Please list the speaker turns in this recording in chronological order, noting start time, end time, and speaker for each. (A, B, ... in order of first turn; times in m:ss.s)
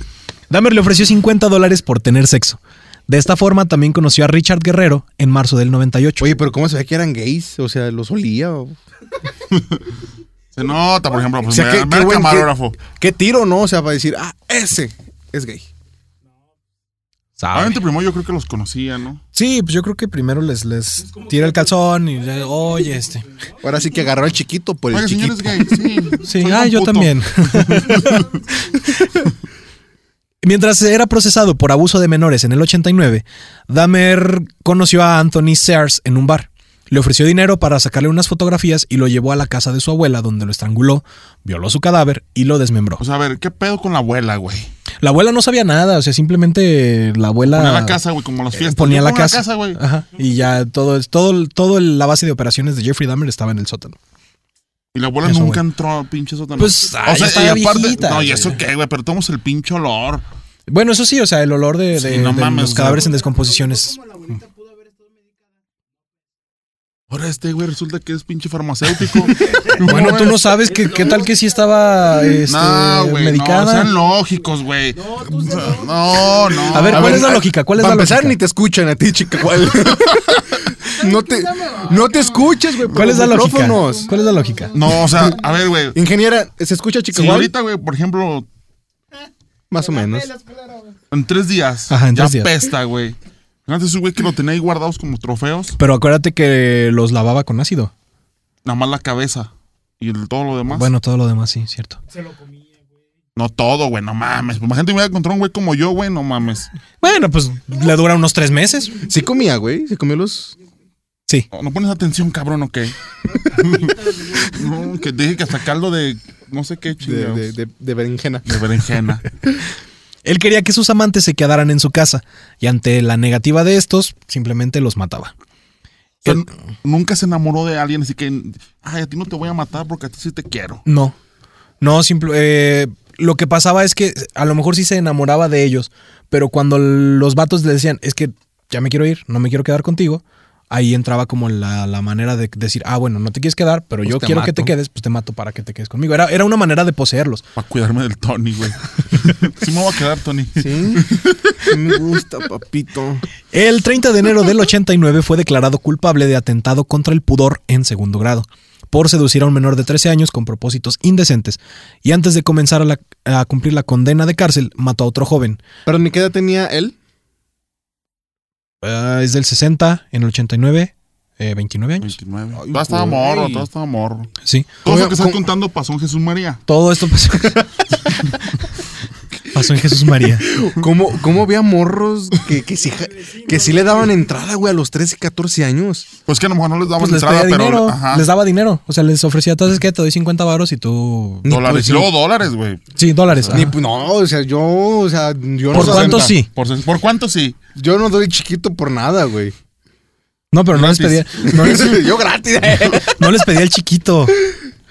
0:00.5-0:06.4 A
0:06.2-0:08.8 B
0:09.5-0:09.8 C
0:10.5-0:12.8 C
0:11.5-0:15.6 B
0:17.4-0:17.8 A
0:17.5-0:19.2 C
0:19.3-0:23.2 A
0:21.0-0:24.0 D
0:23.6-0:25.8 B
0:24.9-0:28.2 C
0:26.2-0:28.3 A
0:28.0-0:28.9 D
0:30.4-0:43.0 A
0:43.0-0:44.7 C
0:45.0-0:48.0 A
0:47.4-0:49.8 C
0:48.5-0:54.0 A
0:54.9-1:00.2 C
0:55.2-0:55.6 A
0:56.6-0:58.6 A
1:00.7-1:04.0 A
1:01.9-1:03.1 C
1:02.8-1:05.4 D
1:07.1-1:10.5 C
1:09.5-1:11.5 D
1:09.8-1:13.9 A
1:12.4-1:17.2 C
1:14.9-1:17.0 D
1:16.7-1:18.4 A
1:16.9-1:24.1 B
1:20.8-1:25.6 D
1:22.9-1:24.8 A
1:24.7-1:26.0 C
1:25.0-1:25.4 B
1:25.9-1:27.5 B
1:27.1-1:28.5 C
1:29.7-1:30.3 B
1:29.8-1:31.0 D
1:31.1-1:35.8 C
1:31.9-1:32.5 A
1:35.8-1:37.9 A
1:38.6-1:40.9 C
1:40.7-1:42.0 A
1:42.1-1:42.8 D
1:43.4-1:46.7 C
1:47.0-1:49.0 A
1:49.0-1:50.5 B
1:51.5-1:57.5 C
1:53.4-1:54.9 D
1:57.0-1:58.6 B
1:58.4-1:59.3 C
2:00.2-2:05.3 A
2:06.2-2:10.8 C
2:10.8-2:11.2 A
2:11.8-2:27.4 A
2:24.1-2:24.7 C
2:27.6-2:31.7 C
2:30.6-2:33.2 B
2:33.5-2:45.6 A
2:45.8-2:47.0 B
2:48.8-2:52.2 A
2:52.0-2:54.3 C
2:52.6-2:53.7 B
2:54.4-2:54.7 A
2:54.8-2:56.6 C
2:54.8-2:55.4 B
2:56.7-2:57.6 A
2:59.5-3:00.5 A
3:00.2-3:06.1 B
3:02.7-3:04.4 D
3:06.2-3:08.3 C
3:07.0-3:11.8 A
3:11.4-3:12.1 B
3:11.4-3:13.7 C
3:13.0-3:13.7 A
3:13.5-3:16.3 B
3:15.7-3:16.5 A
3:15.7-3:17.6 C
3:17.8-3:19.5 B
3:20.5-3:22.1 A
3:20.7-3:21.3 C
3:21.4-3:23.3 B
3:22.9-3:24.4 A